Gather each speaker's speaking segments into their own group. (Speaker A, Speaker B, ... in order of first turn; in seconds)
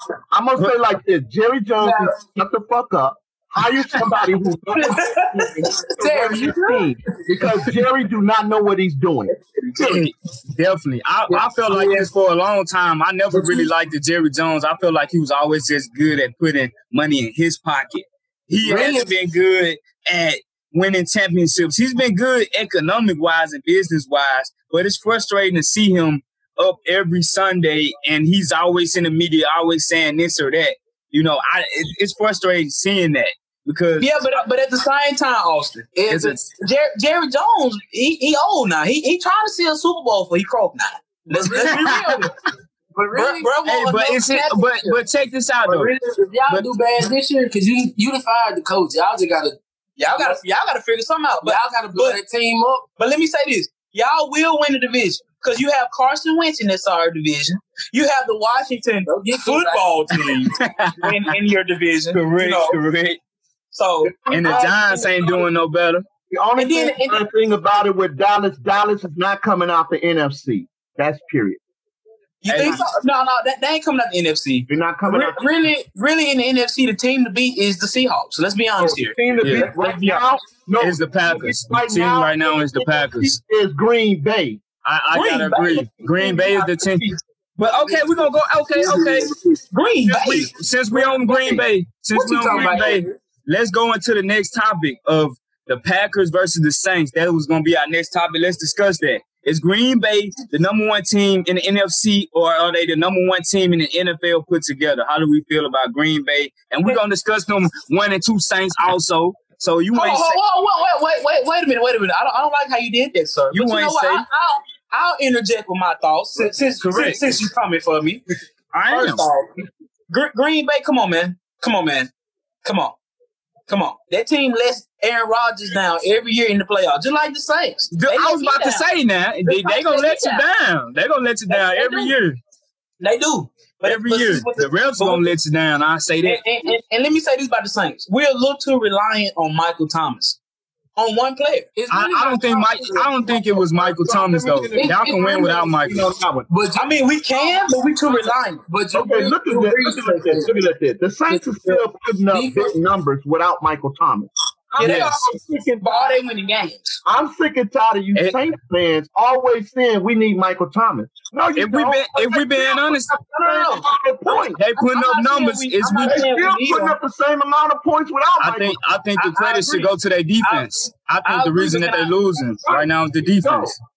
Speaker A: 0.3-10.1, 64.0-64.7, 66.3-71.6, 72.6-72.8, 74.7-75.4, 78.8-84.6, 86.2-89.5, 90.9-91.7, 143.6-146.5, 148.9-156.1, 157.1-164.6, 166.1-168.8, 173.4-173.7
Speaker B: 1.8-2.1, 5.4-6.9, 11.3-12.1, 13.3-13.7, 18.6-19.1, 36.0-36.4, 41.4-42.3, 42.9-43.5, 45.6-49.6, 51.4-52.9, 59.1-59.9, 92.1-93.2, 141.8-143.5, 144.7-145.7, 146.5-146.9, 148.7-150.6, 151.3-152.8
Speaker C: 4.8-5.3, 34.0-36.0, 36.5-42.3, 43.1-45.0, 50.0-52.2, 53.0-62.8, 63.7-65.5, 66.6-67.2, 72.4-80.3, 85.1-85.9, 89.7-90.5, 109.9-118.2, 118.9-122.1, 122.6-123.0, 123.7-128.9, 129.5-130.4, 131.5-132.2, 133.0-135.3, 136.2-140.4, 141.0-141.7, 146.8-148.6, 154.7-157.0, 163.3-167.0, 169.2-169.9, 171.2-172.1
Speaker D: 9.8-34.1, 36.1-36.5, 41.5-42.3, 43.7-45.9, 60.1-61.3, 62.1-63.2, 64.3-66.0, 72.5-72.8, 79.4-79.7, 80.8-83.4, 84.8-87.0, 87.6-89.3, 90.1-110.4, 113.5-114.2, 116.8-117.4, 118.7-119.3, 127.9-132.4, 133.9-136.4, 141.9-146.1, 154.8-155.2, 161.6-163.1, 164.6-166.2, 168.4-173.8